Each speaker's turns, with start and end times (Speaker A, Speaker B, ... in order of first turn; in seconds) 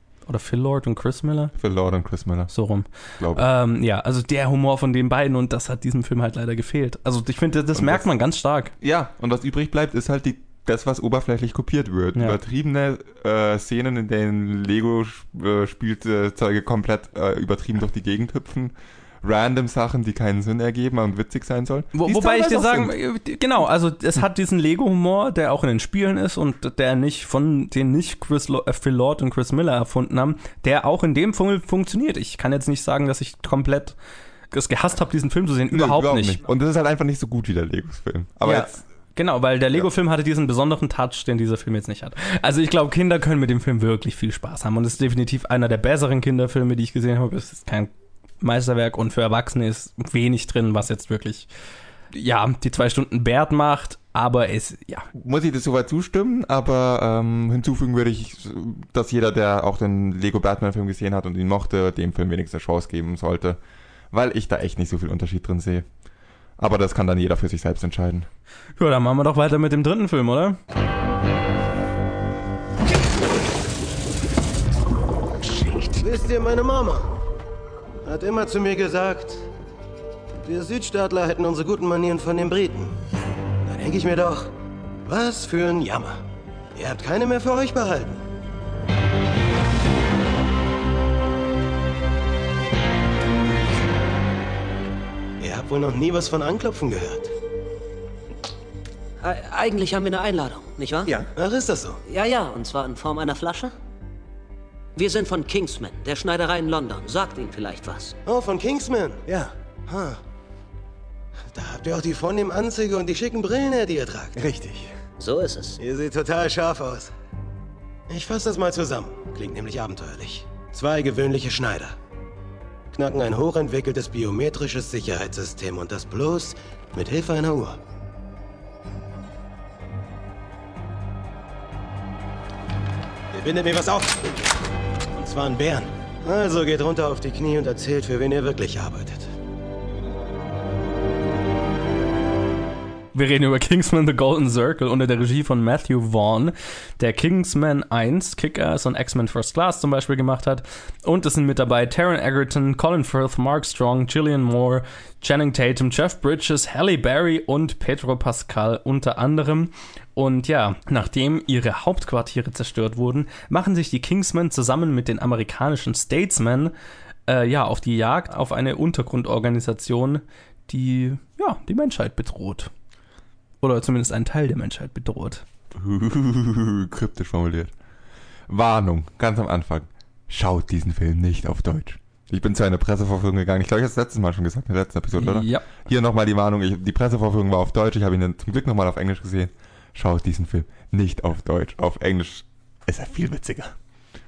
Speaker A: 0.3-1.5, 2.5-8.7, 21.9-34.0, 34.5-36.4, 38.4-47.9, 48.4-51.5, 52.1-55.1, 68.8-70.6, 143.1-166.7, 167.3-172.7, 173.6-175.4, 185.2-185.7
Speaker B: 1.6-2.5, 3.2-3.5, 7.8-8.1, 8.8-22.9, 35.7-38.8, 55.1-63.6, 64.1-65.9, 66.6-68.3, 175.7-177.7, 178.5-193.8
Speaker C: 76.0-77.1, 78.0-79.4, 80.5-83.0, 83.7-84.5, 85.1-86.2, 86.8-88.2, 95.4-97.3, 101.3-102.0, 108.3-110.2, 111.5-115.0, 115.8-117.1, 118.1-122.0, 122.9-127.8, 133.3-134.4, 135.1-139.3
Speaker D: 99.2-101.3, 102.1-103.7, 105.0-108.2, 115.2-115.8